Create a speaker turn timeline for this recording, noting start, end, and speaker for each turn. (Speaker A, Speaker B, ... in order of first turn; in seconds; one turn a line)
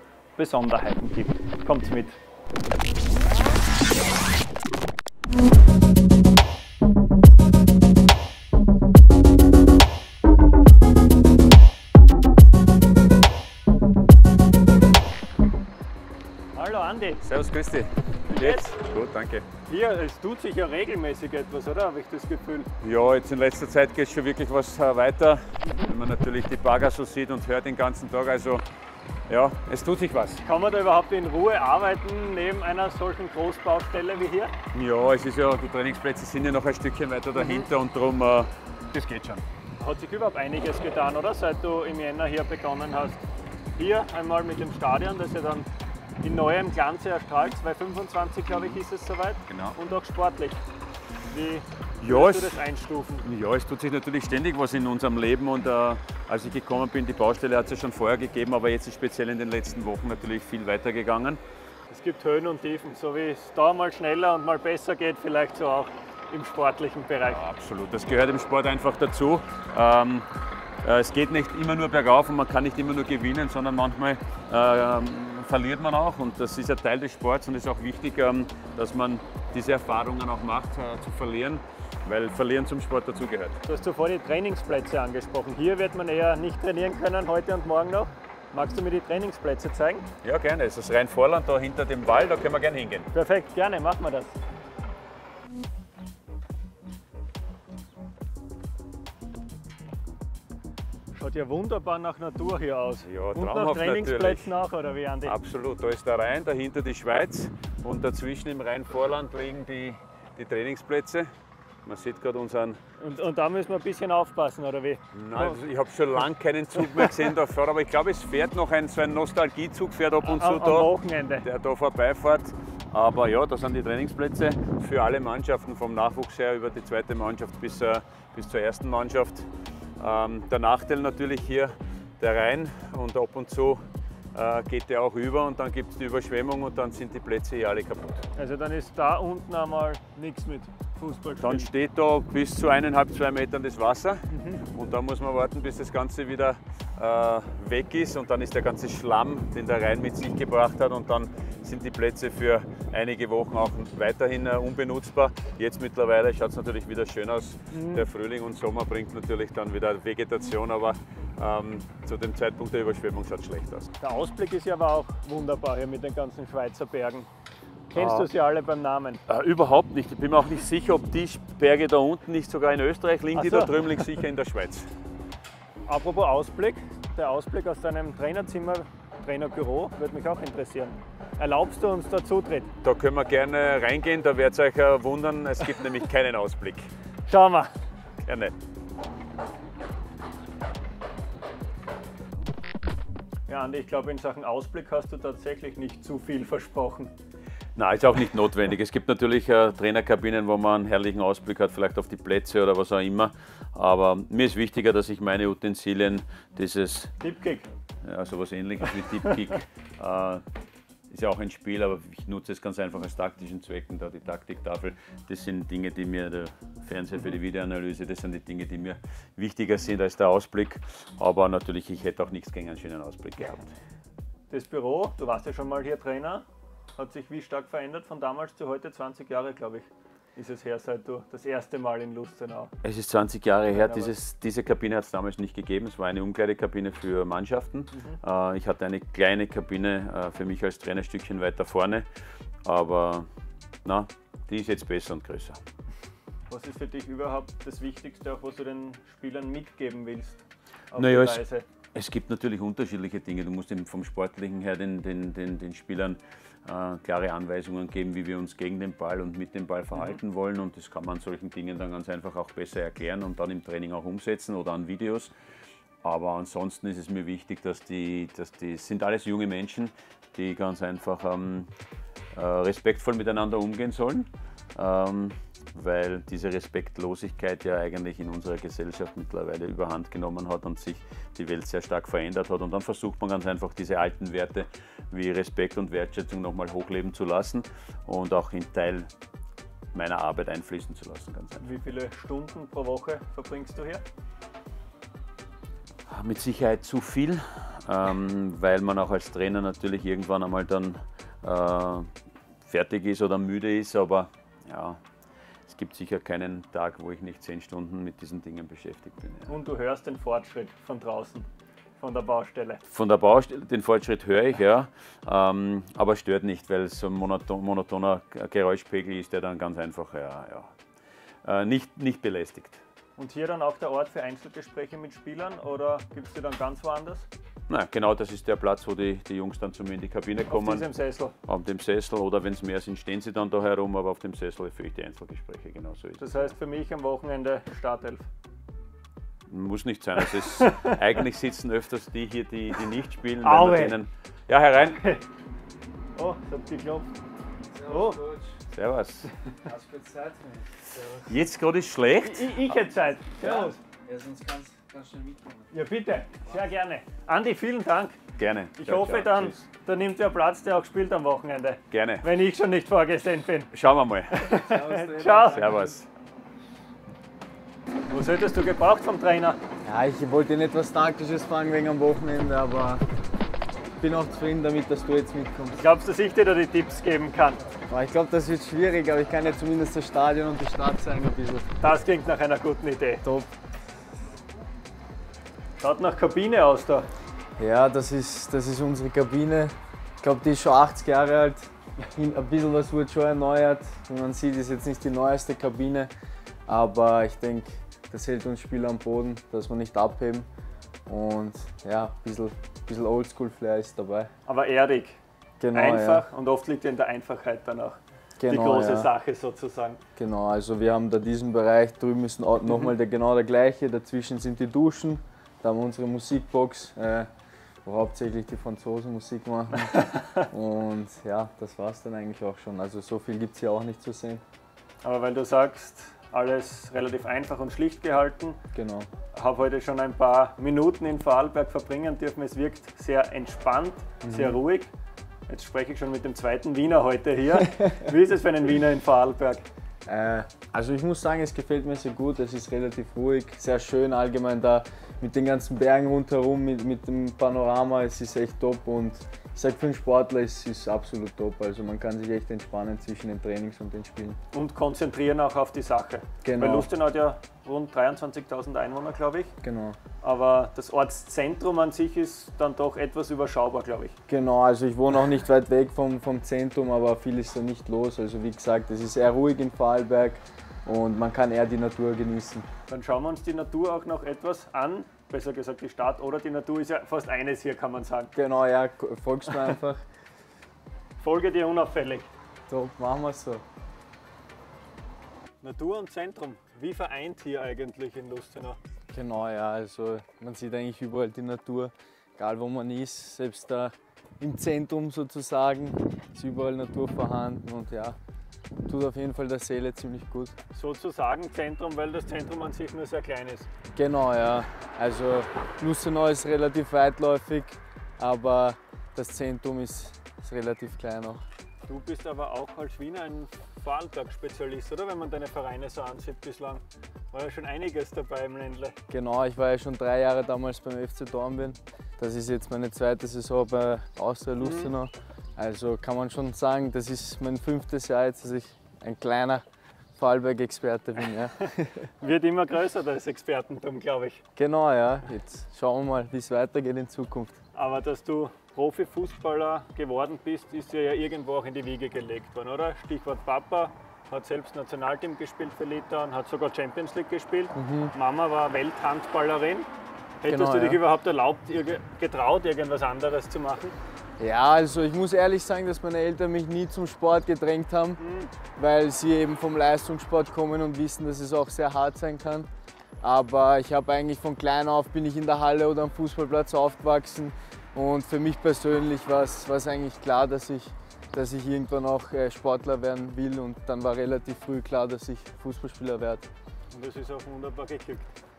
Speaker A: 0.3-2.2
Speaker A: 16.5-17.2
Speaker B: 17.2-19.4
Speaker A: 18.3-18.7
Speaker A: 19.7-22.7
Speaker B: 22.8-28.6
Speaker A: 25.6-25.9
Speaker B: 29.3-30.4
Speaker A: 30.4-34.5
Speaker B: 34.7-39.4
Speaker A: 37.3-37.7
Speaker A: 39.8-43.2
Speaker A: 43.8-45.7
Speaker A: 46.2-50.6
Speaker B: 49.5-49.8
Speaker A: 51.3-53.2
Speaker B: 52.0-52.6
Speaker B: 53.2-61.4
Speaker A: 61.9-67.4
Speaker B: 67.2-70.2
Speaker B: 70.8-83.6
Speaker A: 83.7-90.0
Speaker B: 90.2-93.1
Speaker A: 93.1-94.3
Speaker A: 101.1-105.4
Speaker B: 103.0-104.5
Speaker B: 105.2-111.3
Speaker B: 111.8-112.8
Speaker A: 113.0-115.6
Speaker B: 115.1-129.5
Speaker A: 120.2-121.5
Speaker B: 130.0-133.8
Speaker B: 134.3-138.2
Speaker A: 138.3-141.7
Speaker B: 141.4-163.9
Speaker A: 144.3-144.7
Speaker A: 157.7-158.1
Speaker A: 164.0-167.3
Speaker A: 167.9-169.2
Speaker B: 167.9-168.3
Speaker B: 169.3-174.9
Speaker A: 173.3-173.8
Speaker A: 175.9-182.7
Speaker B: 182.8-186.9
Speaker A: 187.3-187.7
Speaker B: 188.2-188.5
Speaker A: 193.5-197.1
Speaker B: 197.8-207.1
Speaker A: 207.2-207.7
Speaker B: 208.0-210.4
Speaker B: 211.1-223.7
Speaker A: 224.5-226.4
Speaker A: 227.0-232.7
Speaker B: 232.8-242.1
Speaker A: 233.7-234.1
Speaker A: 237.9-238.2
Speaker B: 242.6-243.3
Speaker B: 243.8-245.6
Speaker A: 246.5-251.6
Speaker B: 250.9-251.4
Speaker B: 251.9-265.3
Speaker B: 266.0-271.7
Speaker B: 272.3-289.1
Speaker B: 289.9-291.7
Speaker A: 291.6-294.0
Speaker B: 296.1-302.1
Speaker B: 302.6-305.0
Speaker B: 305.6-309.5
Speaker A: 309.5-311.5
Speaker A: 312.0-312.8
Speaker B: 312.9-320.7
Speaker B: 321.4-322.8
Speaker A: 323.2-327.3
Speaker B: 327.7-330.9
Speaker A: 330.5-331.3
Speaker B: 331.4-336.5
Speaker A: 336.2-338.2
Speaker B: 339.5-345.0
Speaker A: 340.2-340.9
Speaker A: 343.4-344.0
Speaker A: 345.0-345.2
Speaker A: 346.1-347.1
Speaker C: 347.7-348.6
Speaker A: 347.9-348.2
Speaker B: 348.7-349.3
Speaker C: 349.6-351.3
Speaker B: 351.2-352.7
Speaker A: 352.2-353.8
Speaker C: 353.4-355.7
Speaker A: 355.7-358.2
Speaker B: 358.4-359.6
Speaker A: 358.8-363.7
Speaker B: 361.9-362.2
Speaker B: 363.7-364.4
Speaker A: 364.4-365.6
Speaker C: 364.5-366.0
Speaker B: 365.4-366.1
Speaker A: 368.1-369.6
Speaker C: 369.8-373.0
Speaker C: 374.0-375.8
Speaker A: 375.8-377.6
Speaker C: 377.9-381.7
Speaker A: 381.8-383.2
Speaker C: 383.2-383.5
Speaker A: 385.8-387.1
Speaker C: 387.6-396.1
Speaker C: 396.7-400.5
Speaker C: 401.1-404.3
Speaker A: 404.4-405.2
Speaker C: 405.6-406.2
Speaker A: 405.7-410.0
Speaker C: 408.4-409.1
Speaker C: 410.2-417.3
Speaker C: 417.8-424.4
Speaker A: 419.9-420.4
Speaker A: 425.0-428.6
Speaker C: 428.7-429.1
Speaker A: 429.3-434.9
Speaker C: 434.2-434.6
Speaker A: 435.5-439.6
Speaker C: 440.1-454.4
Speaker A: 454.5-459.5
Speaker C: 456.4-456.9
Speaker C: 459.6-460.0
Speaker A: 460.2-464.1
Speaker C: 464.3-472.6
Speaker A: 472.9-478.3
Speaker C: 478.3-480.0
Speaker A: 481.2-482.3
Speaker C: 482.7-483.6
Speaker A: 485.6-488.8
Speaker C: 489.1-498.2
Speaker C: 498.8-500.5
Speaker A: 500.7-503.7
Speaker C: 503.9-511.4
Speaker A: 511.9-518.9
Speaker C: 519.1-529.6
Speaker A: 524.6-524.9
Speaker C: 530.2-532.1
Speaker A: 532.2-534.4
Speaker C: 534.5-537.6
Speaker A: 537.7-549.9
Speaker C: 547.7-548.1
Speaker A: 550.4-553.9
Speaker C: 550.5-551.0
Speaker C: 554.4-558.2
Speaker A: 558.2-558.5
Speaker C: 558.7-562.7
Speaker C: 563.2-576.5
Speaker A: 576.9-578.2